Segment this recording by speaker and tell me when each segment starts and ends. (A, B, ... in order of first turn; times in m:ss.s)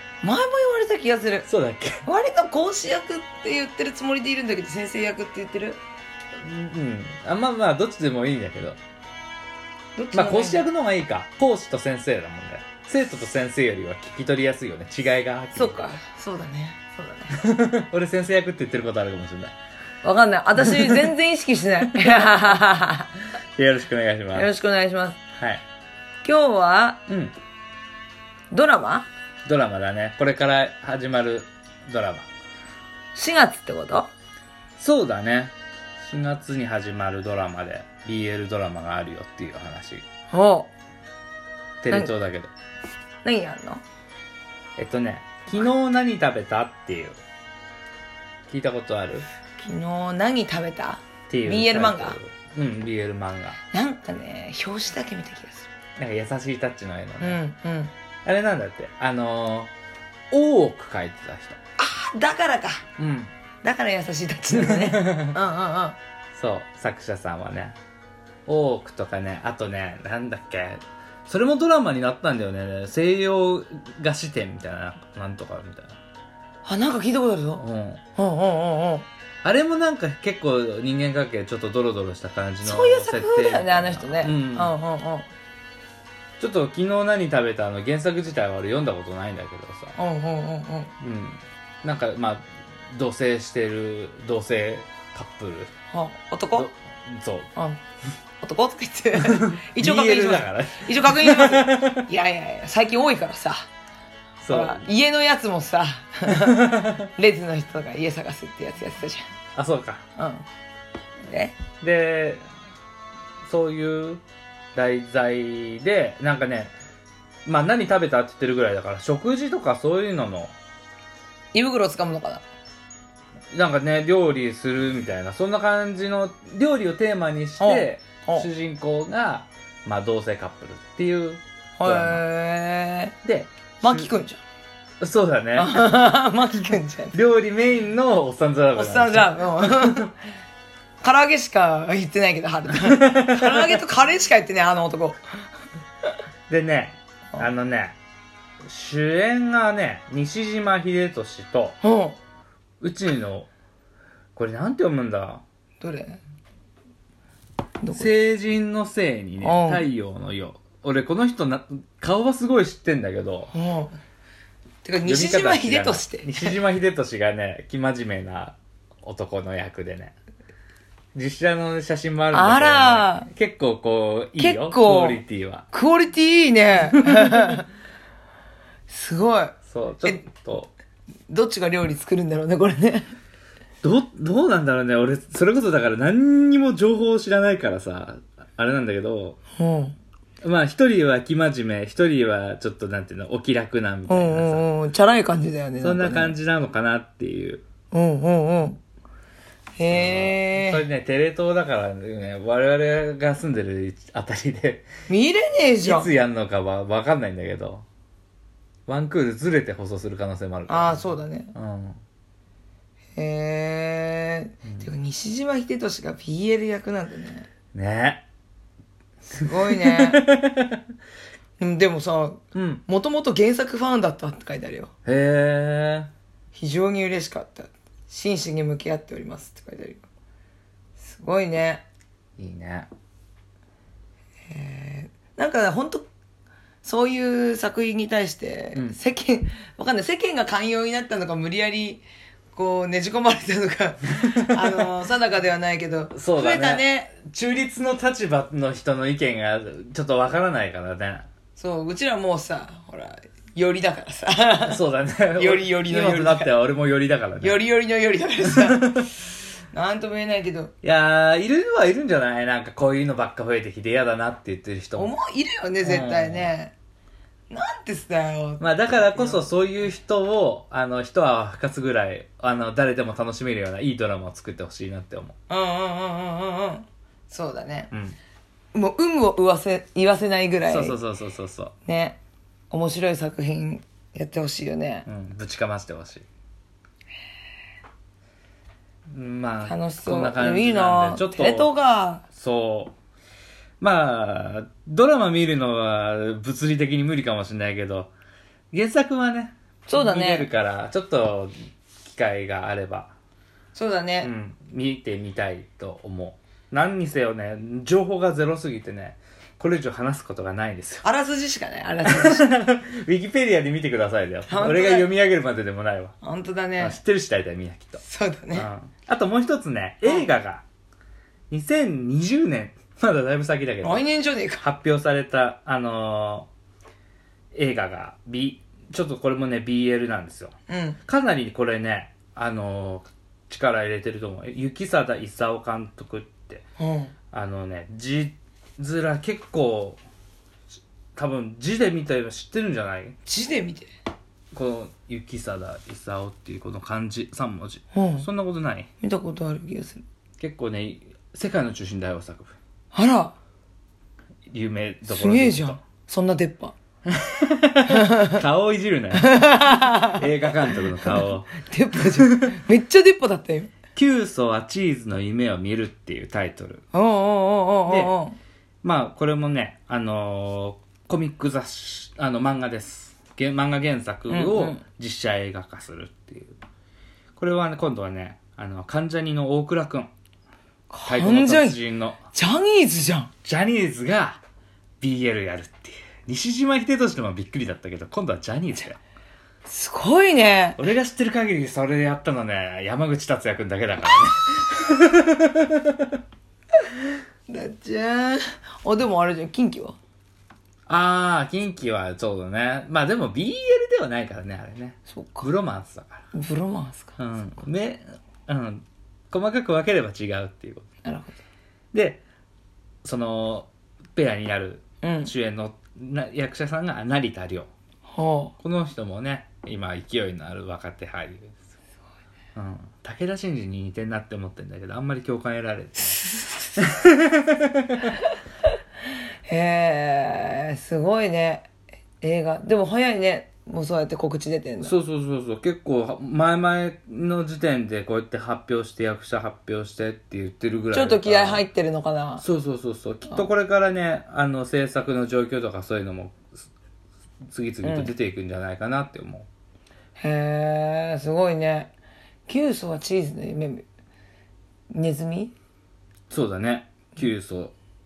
0:00.2-0:01.5 A
0:01.4-0:02.0 B
0:02.0-0:05.8 A
0:06.4-0:08.8 B
0:10.0-0:10.7 A
0:10.1-0:15.9 B
0:15.5-0:17.4 A
0:17.3-0:19.5 B
0:20.0-0:23.1 A
0:20.6-0:21.1 B
0:22.0-0:22.3 B
0:23.6-0:24.5 B
0:24.3-0:25.2 A
0:25.4-0:25.6 B
0:26.2-0:27.0 A
0:27.1-0:27.3 B
0:28.5-0:29.1 A
0:29.4-0:32.3 B
0:33.1-0:34.1 A
0:34.8-0:40.0 B
0:40.3-0:40.7 A
0:41.8-0:42.5 B
0:43.2-0:43.8 A
0:44.8-0:47.2 B
0:48.5-0:49.2 B
0:49.6-0:52.2 A
0:51.3-0:53.6 B
0:53.7-0:55.7 A
0:56.0-0:57.4 B
0:57.2-0:57.9 A
0:58.2-0:59.7 B
1:00.3-1:01.6 B
1:01.8-1:02.8 A
1:03.0-1:03.3 B
1:03.6-1:06.0 A
1:04.5-1:05.4 B
1:06.3-1:07.8 B
1:08.4-1:16.0 B
1:16.6-1:19.1 A
1:17.6-1:18.0 B
1:19.4-1:24.7 B
1:22.6-1:25.3 A
1:26.4-1:29.9 B
1:30.0-1:30.9 A
1:31.0-1:35.7 B
1:35.9-1:36.7 A
1:36.5-1:37.5 B
1:38.4-1:43.7 A
1:39.2-1:42.1 B
1:44.4-1:44.8 B
1:44.5-1:49.2 A
1:46.3-1:47.0 B
1:49.6-1:50.0 B
1:50.2-1:50.4 A
1:51.3-1:51.6 A
1:51.8-1:52.4 B
1:53.4-1:54.2 B
1:54.7-1:56.7 B
1:57.4-2:00.5 B
2:01.5-2:02.4 A
2:03.5-2:12.2 B
2:07.6-2:08.5 A
2:11.8-2:13.2 A
2:13.2-2:14.1 B
2:13.8-2:14.4 A
2:15.0-2:15.9 B
2:15.6-2:17.2 A
2:17.1-2:20.1 B
2:18.7-2:20.1 A
2:21.0-2:25.2 A
2:22.8-2:23.8 B
2:26.5-2:28.0 B
2:28.7-2:31.8 B
2:31.8-2:32.2 A
2:32.8-2:33.5 B
2:34.3-2:35.4 B
2:35.8-2:36.2 A
2:37.8-2:38.1 A
2:37.9-2:43.5 B
2:39.4-2:39.9 A
2:43.5-2:44.0 A
2:44.8-2:46.5 A
2:45.0-2:50.1 B
2:51.1-2:55.6 B
2:52.3-2:53.3 A
2:54.4-2:57.7 A
2:57.1-2:57.6 B
2:58.9-3:00.2 A
2:59.7-3:00.7 B
3:01.3-3:03.1 A
3:03.8-3:09.4 B
3:09.6-3:10.0 A
3:10.4-3:14.6 B
3:14.1-3:16.4 A
3:15.8-3:17.6 B
3:17.9-3:18.8 A
3:19.8-3:20.8 A
3:19.9-3:24.9 B
3:25.1-3:26.1 A
3:25.8-3:27.8 B
3:28.9-3:32.0 B
3:30.7-3:31.5 A
3:33.2-3:37.5 A
3:34.6-3:34.9 B
3:37.7-3:38.2 B
3:39.3-3:40.2 A
3:39.3-3:40.8 B
3:41.6-3:44.9 A
3:42.5-3:42.8 B
3:45.0-3:46.1 B
3:46.5-3:50.0 A
3:51.0-3:51.8 A
3:52.4-3:52.9 B
3:54.5-3:56.1 A
3:56.8-4:02.0 A
4:02.5-4:07.1 A
4:04.2-4:04.8 B
4:06.1-4:11.3 B
4:11.6-4:14.8 A
4:14.6-4:17.6 B
4:15.4-4:16.5 A
4:17.4-4:19.1 A
4:18.4-4:19.1 B
4:19.7-4:20.7 A
4:20.8-4:25.1 B
4:25.0-4:26.7 A
4:25.8-4:26.5 B
4:27.5-4:29.5 A
4:28.6-4:35.4 B
4:35.5-4:37.9 A
4:37.9-4:38.2 B
4:38.7-4:41.0 A
4:40.7-4:41.7 B
4:41.8-4:42.2 A
4:42.7-4:45.1 A
4:45.0-4:46.2 B
4:49.1-4:51.7 B
4:49.6-4:52.2 A
4:52.3-4:52.9 B
4:53.8-4:58.1 B
4:58.7-5:03.1 B
4:59.9-5:00.5 A
5:03.7-5:04.3 A
5:04.2-5:11.0 B
5:11.0-5:12.5 A
5:12.1-5:16.1 B
5:14.5-5:15.1 A
5:16.2-5:17.0 A
5:16.8-5:18.0 B
5:18.0-5:18.7 A
5:18.5-5:20.6 B
5:21.5-5:24.0 B
5:23.8-5:24.6 A
5:24.6-5:26.5 B
5:27.5-5:30.5 B
5:30.7-5:31.0 A
5:31.1-5:36.6 B
5:36.8-5:37.1 A
5:37.3-5:40.0 B
5:41.2-5:43.2 B
5:43.2-5:43.9 A
5:44.5-5:48.9 B
5:47.9-5:48.3 A
5:49.0-5:50.0 A
5:50.4-5:52.6 B
5:52.9-5:53.3 A
5:54.5-5:55.8 B
5:55.0-5:56.7 A
5:57.1-6:01.6 B
5:57.9-5:58.4 A
5:59.1-6:03.7 A
6:02.1-6:02.5 B
6:03.9-6:06.8 B
6:06.9-6:08.4 A
6:07.9-6:08.1 B
6:08.8-6:16.6 B
6:14.3-6:14.8 A
6:17.4-6:20.1 B
6:20.9-6:21.8 A
6:21.0-6:22.2 B
6:22.3-6:23.3 A
6:23.4-6:24.4 B
6:25.0-6:29.0 B
6:29.6-6:30.8 A
6:30.8-6:36.2 B
6:37.5-6:40.0 A
6:40.9-6:46.2 B
6:45.1-6:45.5 A
6:46.3-6:47.2 A
6:47.2-6:50.9 B
6:51.0-6:51.4 A
6:51.9-6:52.2 B
6:53.0-6:57.7 B
6:55.0-6:55.3 A
6:58.1-6:58.5 A
6:58.6-7:01.5 B
7:02.5-7:06.2 B
7:06.2-7:06.7 A
7:06.8-7:08.1 B
7:08.0-7:08.3 A
7:09.4-7:11.7 A
7:12.2-7:14.9 A
7:14.8-7:21.6 B
7:20.9-7:22.4 A
7:22.4-7:26.5 B
7:27.5-7:29.5 B
7:27.8-7:28.1 A
7:30.2-7:31.9 A
7:32.5-7:33.8 A
7:34.9-7:35.5 A
7:36.3-7:37.7 B